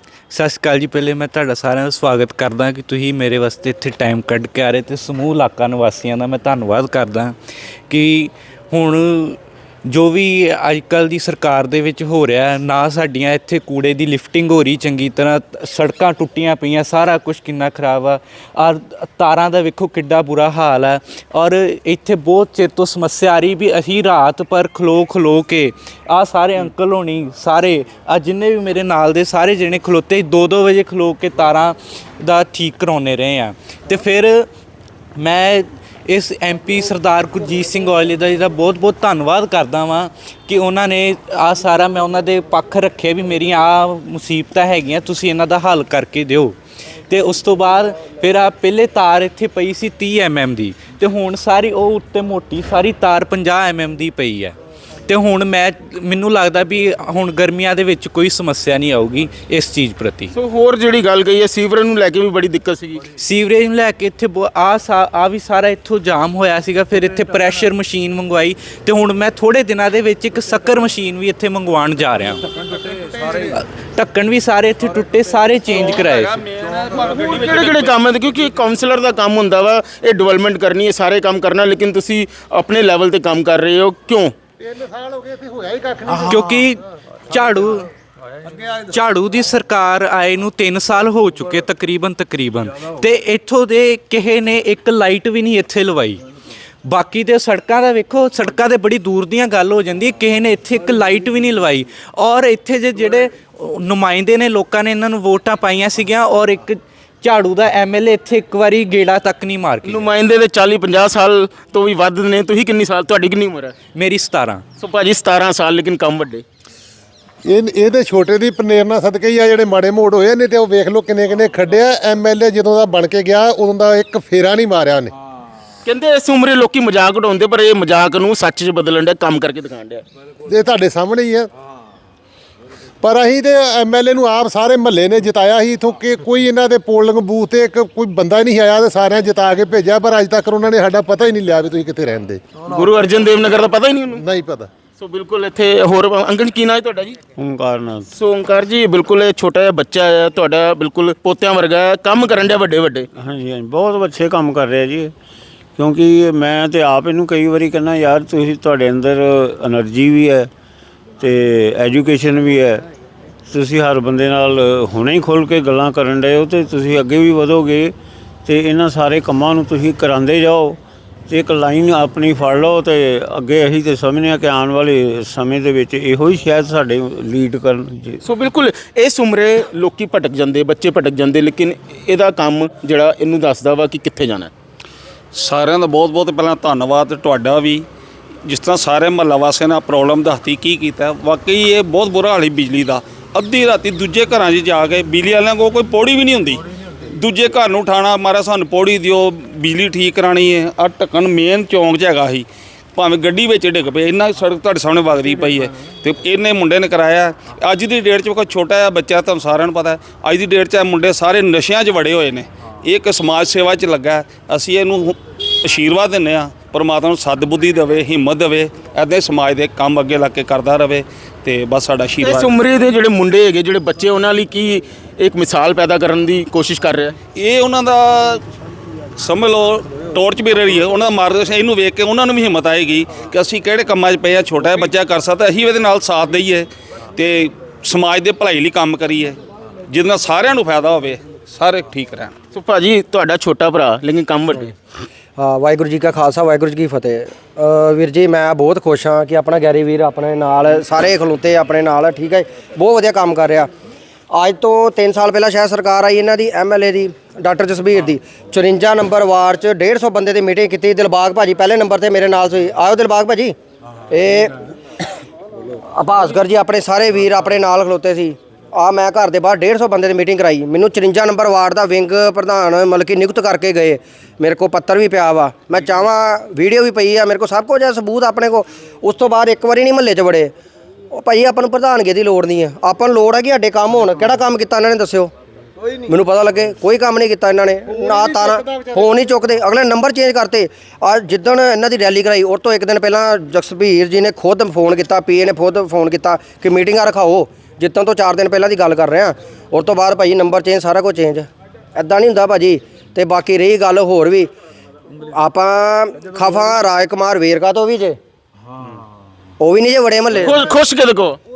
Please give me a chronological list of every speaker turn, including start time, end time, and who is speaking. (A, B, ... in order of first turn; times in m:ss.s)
0:00.3-0:07.4 A
0:07.9-0:34.5 A
0:35.2-0:46.6 A
0:47.1-0:54.6 A
0:55.1-1:00.3 A
1:00.3-1:03.1 B
1:03.2-1:12.4 A
1:13.4-1:16.4 A
1:15.8-1:17.9 C
1:17.1-1:24.3 B
1:24.6-1:26.4 D
1:26.1-1:27.9 A
1:28.8-1:36.3 A
1:36.8-1:50.1 A
1:49.8-1:53.8 B
1:54.0-1:54.6 A
1:54.8-1:56.4 B
1:57.5-2:05.1 D
2:05.8-2:10.0 B
2:10.5-2:11.5 D
2:13.0-2:22.6 D
2:22.7-2:24.2 B
2:24.2-2:24.7 D
2:25.0-2:27.2 B
2:27.4-2:28.1 E
2:28.1-2:33.1 B
2:33.1-2:35.1 E
2:35.8-2:40.5 E
2:41.2-2:42.8 E
2:43.5-2:47.9 E
2:48.4-2:58.2 E
2:58.2-3:04.5 B
3:05.3-3:07.9 C
3:08.4-3:16.6 C
3:17.2-3:42.5 C
3:42.2-3:47.2 B
3:47.4-3:48.4 C
3:49.2-4:02.3 C
4:02.5-4:04.7 B
4:05.4-4:13.7 F
4:14.3-4:23.6 F
4:24.1-4:24.6 F
4:25.9-4:40.5 F
4:41.1-4:45.3 F
4:46.1-5:04.5 F
4:47.9-4:49.2 D
5:05.3-5:08.2 F
5:09.6-5:10.6 F
5:10.3-5:11.4 B